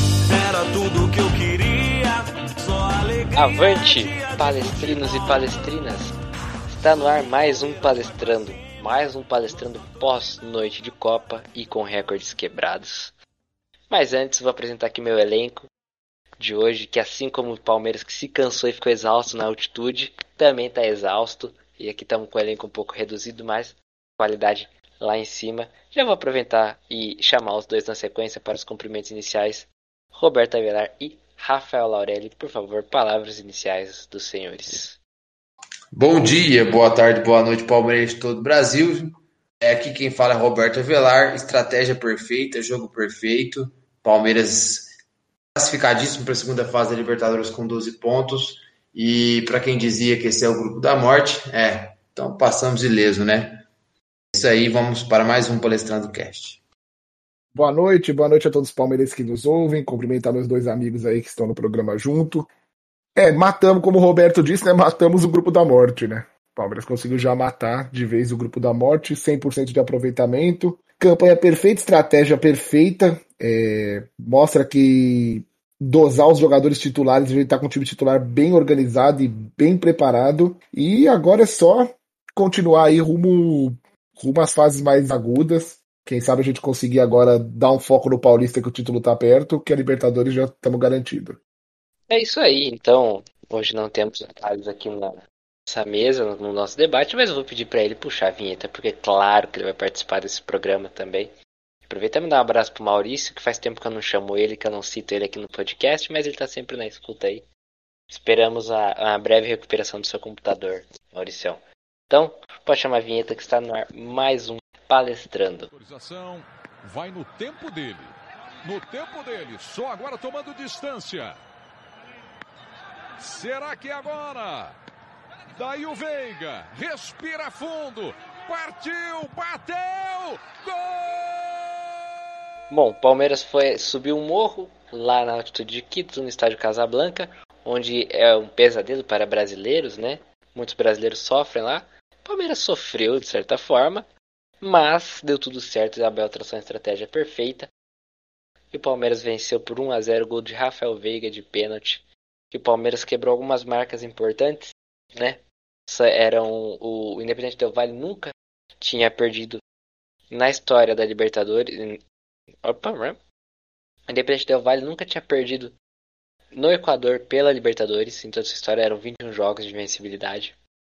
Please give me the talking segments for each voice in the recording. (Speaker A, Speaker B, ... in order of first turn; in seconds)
Speaker A: 0.3-5.6, 7.6-8.7
Speaker B: 3.3-6.2, 6.7-13.2, 13.9-15.7, 16.4-35.0, 92.1-101.3, 101.9-107.5, 108.1-115.7, 132.7-144.1, 144.6-147.7, 148.7-159.6, 160.3-162.0, 162.6-163.2, 164.1-165.8, 166.5-170.6
Speaker C: 35.9-44.9, 45.5-53.6, 54.3-56.6
Speaker D: 57.5-62.5, 63.2-91.4
Speaker E: 115.7-121.4, 123.2-124.8, 125.5-131.8